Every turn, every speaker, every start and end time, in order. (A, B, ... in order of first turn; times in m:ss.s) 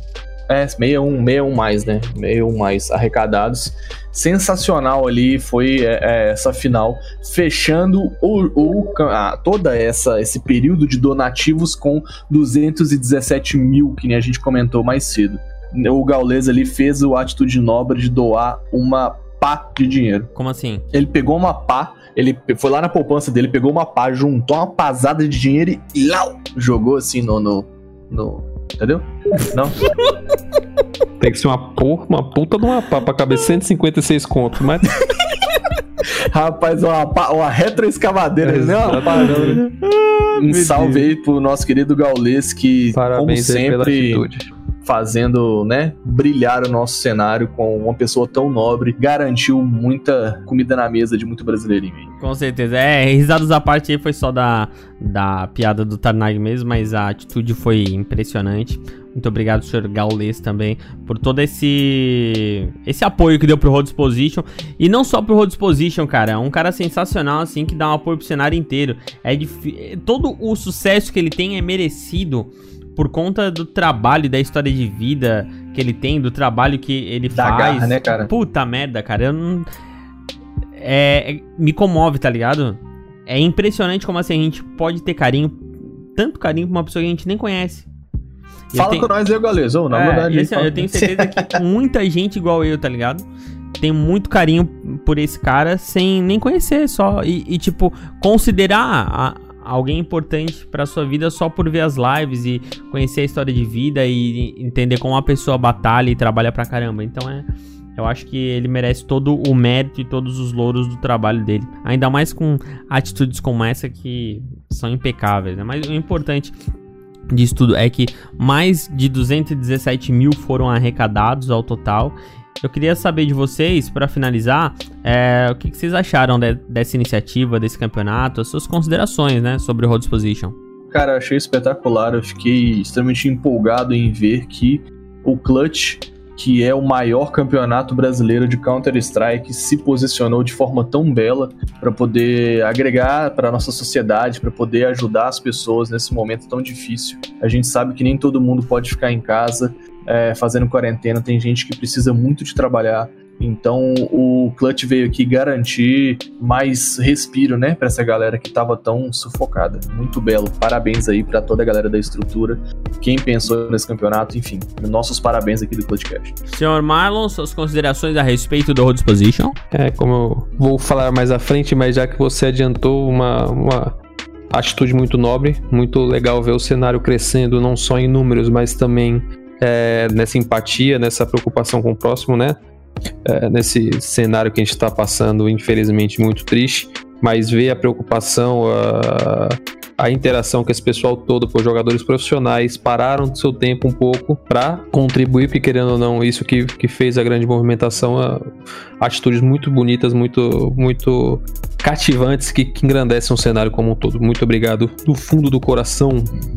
0:00.5-0:20.3 A
0:20.4-0:20.8 B
0:20.9-0:29.9 A
0:31.2-0:35.0 C
0:36.3-0:39.6 A
0:38.4-0:39.6 C
0:39.4-0:41.1 B
0:40.4-0:44.3 A
0:43.0-0:44.5 C
0:44.8-0:52.1 A
0:52.2-1:19.7 B
1:17.4-1:18.3 A
1:20.8-1:27.9 B
1:28.7-1:29.1 B
1:28.7-1:31.6 A
1:29.9-1:33.3 B
1:33.8-1:56.6 B
1:57.3-2:10.6 B
2:10.9-2:46.4 A
2:46.5-2:49.6 B
2:49.7-2:54.0 C
2:54.5-3:02.6 C
3:03.2-3:26.3 C